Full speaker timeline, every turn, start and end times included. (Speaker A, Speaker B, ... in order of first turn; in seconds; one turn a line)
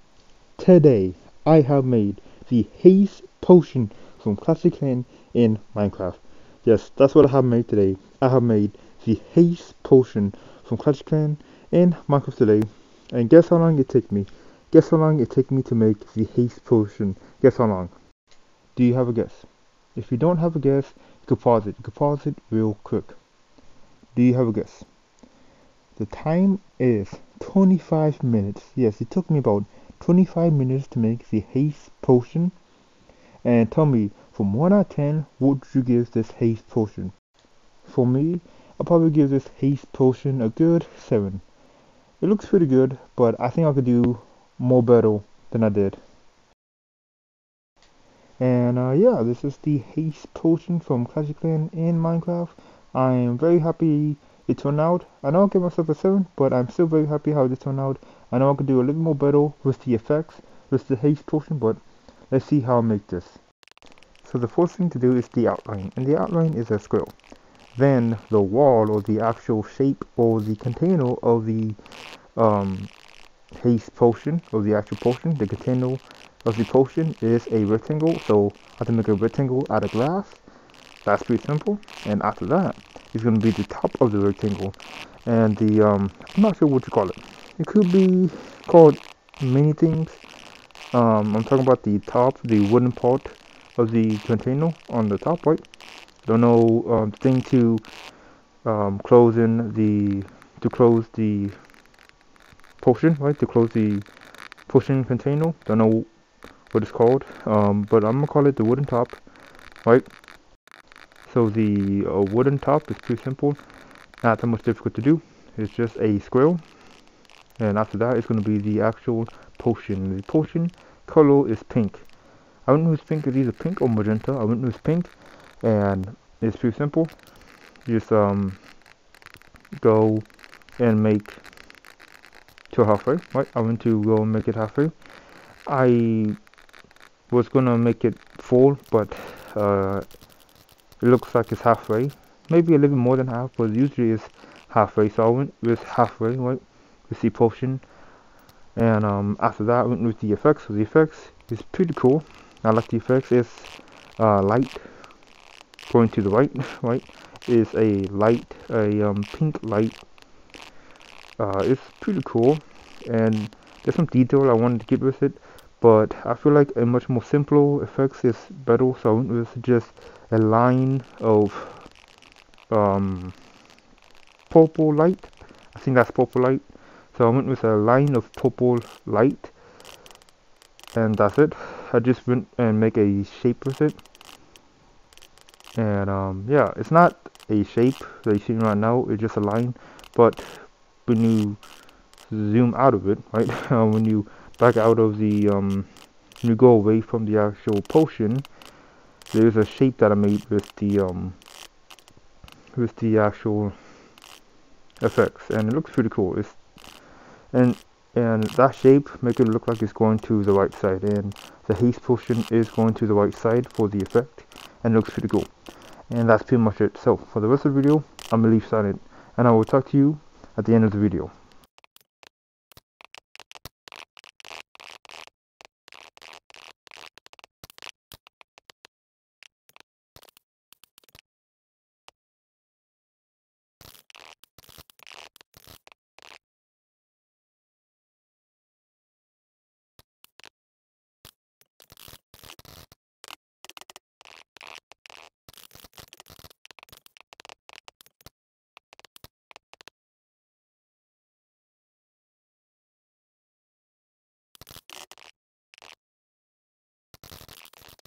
Speaker A: 0.6-17.9
Speaker A: 18.8-23.2
Speaker A: 24.1-24.9
Speaker A: 25.9-32.5
Speaker A: 33.4-37.1
Speaker A: 37.8-41.4
Speaker A: 42.2-46.0
Speaker A: 48.4-61.8
Speaker A: 62.3-63.4
Speaker A: 64.2-67.1
Speaker A: 67.7-71.8
Speaker A: 72.4-72.9
Speaker A: 73.5-80.4
Speaker A: 81.0-90.2
Speaker A: 90.9-95.6
Speaker A: 96.2-97.8
Speaker A: 98.6-101.5
Speaker A: 102.8-104.0
Speaker A: 104.7-106.1
Speaker A: 106.7-109.2
Speaker A: 111.2-113.6
Speaker A: 114.2-116.6
Speaker A: 117.6-122.0
Speaker A: 122.7-127.1
Speaker A: 127.8-128.6
Speaker A: 129.8-130.2
Speaker A: 130.8-131.4
Speaker A: 132.7-134.9
Speaker A: 135.7-136.4
Speaker A: 137.3-140.0
Speaker A: 141.0-147.8
Speaker A: 148.8-154.8
Speaker A: 155.9-160.0
Speaker A: 161.4-171.9
Speaker A: 172.7-173.3
Speaker A: 174.5-179.5
Speaker A: 180.9-184.0
Speaker A: 185.8-191.6
Speaker A: 192.3-195.9
Speaker A: 196.4-198.4
Speaker A: 199.3-201.4
Speaker A: 202.8-203.7
Speaker A: 205.0-206.6
Speaker A: 207.5-215.5
Speaker A: 216.1-221.3